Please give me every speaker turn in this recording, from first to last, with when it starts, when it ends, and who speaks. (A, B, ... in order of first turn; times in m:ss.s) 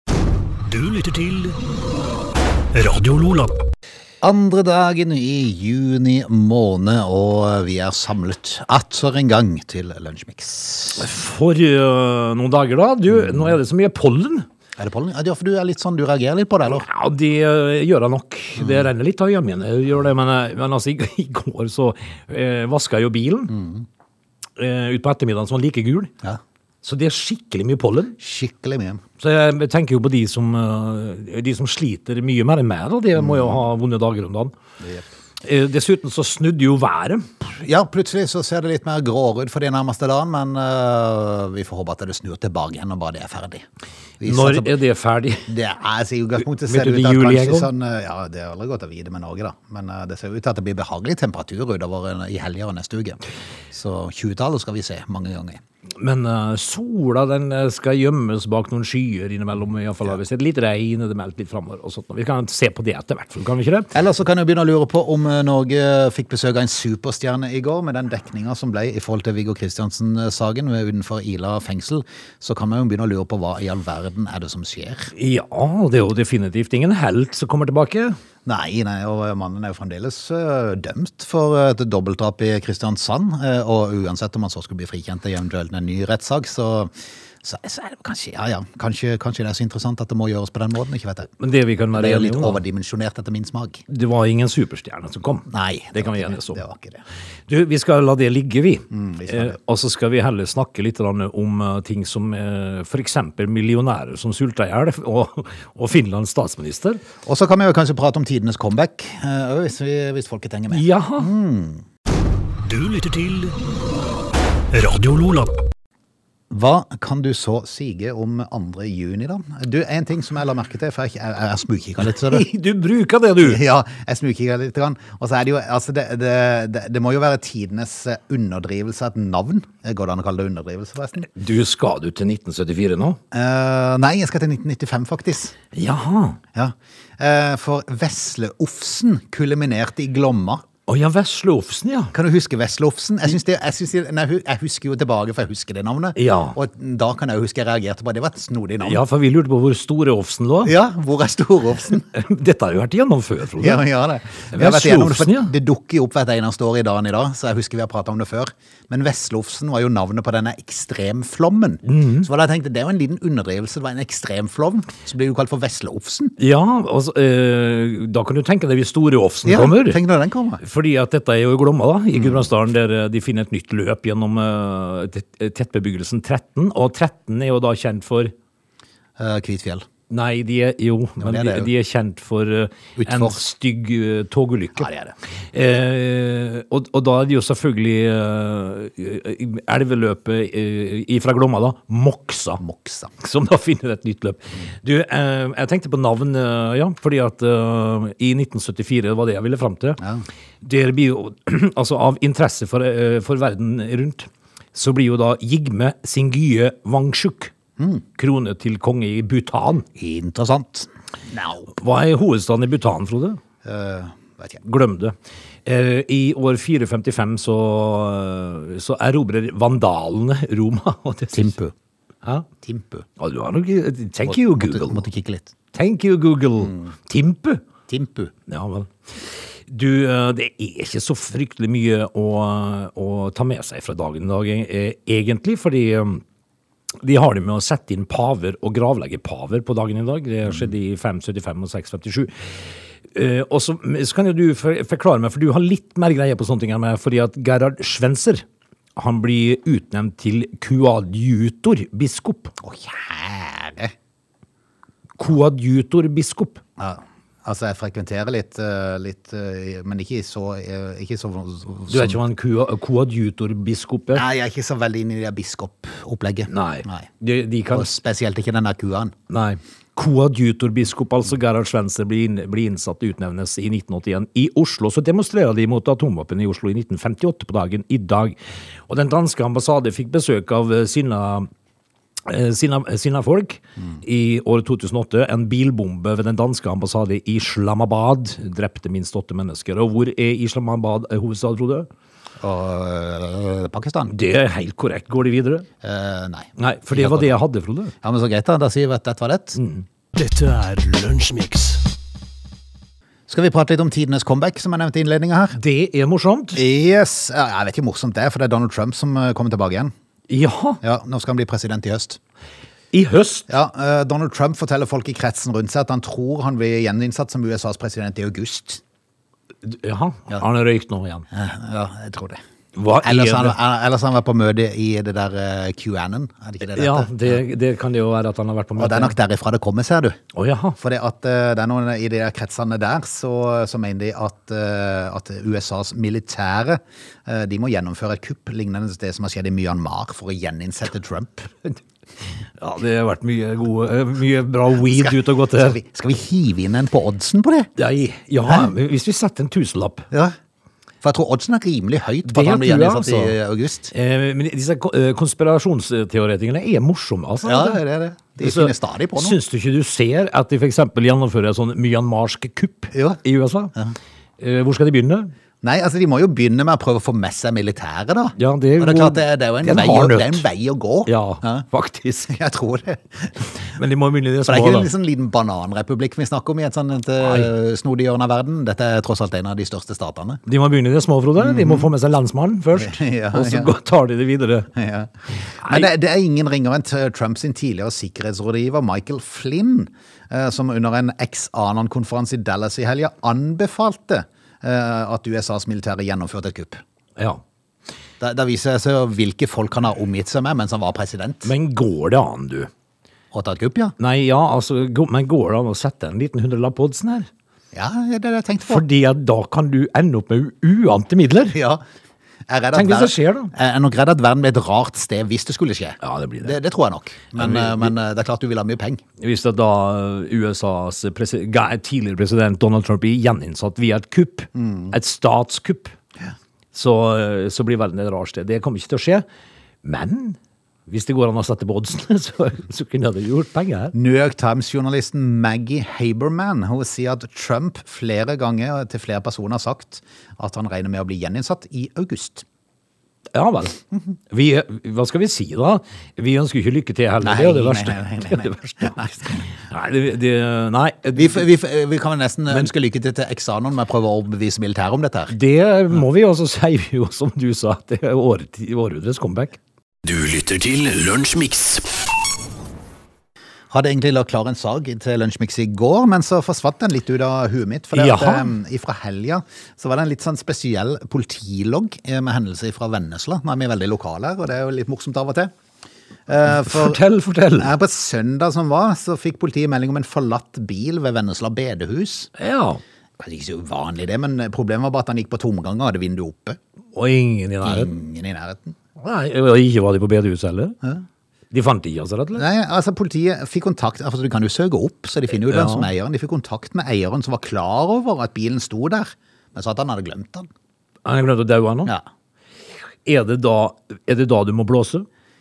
0:00.6-0:01.6 A
0:02.7-0:03.5 A
0:04.2-0:11.1 B
0:11.0-0:14.5 C
0:13.1-0:13.6 B
0:14.8-0:16.9 B
0:16.7-0:23.6 C
0:23.5-0:23.8 B
0:24.6-0:26.1 C
0:26.8-0:28.2 C
0:28.2-0:29.0 B
0:29.2-0:34.5 C
0:33.2-0:33.6 B
0:35.4-0:37.3 C
0:37.4-0:43.6 B
0:44.2-0:44.8 B
0:44.2-0:45.5 C
0:45.4-0:53.2 B
0:46.6-0:47.7 C
0:53.7-0:55.6 B
0:56.0-1:03.9 C
1:03.9-1:15.1 B
1:15.2-1:18.2 C
1:18.5-1:31.3 B
1:31.4-1:32.6 C
1:31.9-1:33.8 B
1:33.9-1:36.6 C
1:35.5-1:37.0 B
1:37.5-1:47.0 C
1:38.9-1:39.6 B
1:47.2-1:51.8 B
1:50.7-1:51.3 C
1:52.7-1:53.5 A
1:54.7-1:55.5 A
1:56.5-2:02.5 B
2:02.1-2:03.6 C
2:03.4-2:11.3 B
2:11.3-2:13.2 C
2:13.3-2:15.6 B
2:15.7-2:16.4 C
2:16.5-2:20.6 B
2:20.9-2:22.1 C
2:22.1-2:29.0 B
2:26.2-2:26.6 C
2:28.8-2:30.7 C
2:30.6-2:32.1 B
2:32.1-2:33.8 C
2:33.6-2:46.3 B
2:34.5-2:35.5 C
2:41.9-2:42.3 C
2:46.4-2:50.0 C
2:49.4-2:50.6 B
2:50.6-2:58.3 C
2:52.2-2:52.5 B
2:59.2-2:59.9 B
3:00.1-3:04.9 C
3:01.2-3:01.7 B
3:03.0-3:03.4 B
3:04.8-3:05.2 B
3:05.5-3:12.6 C
3:12.6-3:13.1 B
3:13.2-3:20.0 C
3:20.0-3:20.2 B
3:20.6-3:27.5 C
3:27.8-3:28.0 B
3:28.2-3:29.9 C
3:30.0-3:31.8 B
3:31.7-3:33.4 C
3:33.6-3:34.6 B
3:34.6-3:41.6 C
3:41.3-3:41.7 B
3:42.6-3:43.1 B
3:43.2-3:45.0 C
3:44.2-3:45.5 B
3:45.7-3:47.6 C
3:47.9-3:48.3 B
3:48.5-3:56.2 C
3:57.0-4:08.4 C
4:09.0-4:12.6 C
4:12.6-4:13.9 B
4:15.2-4:16.6 C
4:16.8-4:22.2 B
4:21.9-4:24.2 C
4:24.1-4:27.1 B
4:26.5-4:27.9 C
4:27.7-4:29.1 B
4:29.3-4:41.5 C
4:42.2-4:51.9 C
4:52.4-4:54.2 B
4:54.1-4:55.7 C
4:55.8-4:57.4 B
4:56.6-4:57.9 C
4:58.0-4:59.6 B
4:59.6-4:59.9 C
5:00.2-5:01.8 A
5:03.3-5:05.6 B
5:05.6-5:06.6 C
5:06.6-5:09.9 B
5:10.3-5:10.8 C
5:10.8-5:12.2 B
5:12.9-5:13.5 C
5:13.5-5:18.8 B
5:19.6-5:21.2 C
5:21.3-5:22.4 B
5:22.8-5:23.6 C
5:23.0-5:27.4 B
5:26.7-5:29.1 C
5:28.8-5:30.2 B
5:30.3-5:30.8 C
5:30.8-5:41.5 B
5:42.6-5:45.8 C
5:44.9-5:47.7 B
5:47.8-5:50.1 C
5:48.4-5:48.7 B
5:51.0-5:53.9 B
5:52.2-5:53.4 C
5:53.9-5:57.8 C
5:57.4-5:59.4 B
5:58.4-6:03.7 C
6:02.9-6:03.2 B
6:04.4-6:05.3 C
6:05.6-6:11.7 B
6:08.4-6:10.4 C
6:11.1-6:12.3 C
6:12.3-6:13.5 B
6:13.6-6:14.9 C
6:14.4-6:20.4 B
6:17.2-6:17.5 C
6:20.4-6:24.7 C
6:21.4-6:21.9 B
6:22.7-6:23.7 B
6:24.7-6:36.8 B
6:25.4-6:25.9 C
6:37.2-6:37.4 C
6:38.2-6:41.5 B
6:41.4-6:42.7 C
6:43.3-6:43.9 B
6:44.0-6:47.3 C
6:47.7-6:48.8 B
6:48.7-6:51.6 C
6:51.5-6:51.8 B
6:52.5-6:59.0 B
6:52.7-6:53.5 C
6:56.0-6:56.6 C
6:57.3-6:57.9 C
6:59.2-7:05.9 C
7:04.6-7:04.9 B
7:06.7-7:09.2 C
7:09.8-7:13.9 C
7:13.9-7:22.4 B
7:23.3-7:23.8 C
7:24.3-7:31.4 C
7:27.2-7:29.5 B
7:31.1-7:35.4 B
7:35.3-7:39.6 C
7:40.0-7:41.9 A
7:43.7-7:55.5 B
7:47.9-7:48.5 C
7:56.3-7:57.0 B
7:56.5-7:57.7 C
7:57.6-8:02.3 B
8:02.4-8:02.8 C
8:03.2-8:06.6 B
8:06.9-8:07.9 C
8:07.6-8:08.8 B
8:09.0-8:10.8 C
8:11.5-8:12.4 C
8:12.4-8:20.5 B
8:15.5-8:15.9 C
8:21.0-8:21.9 C
8:23.0-8:25.1 C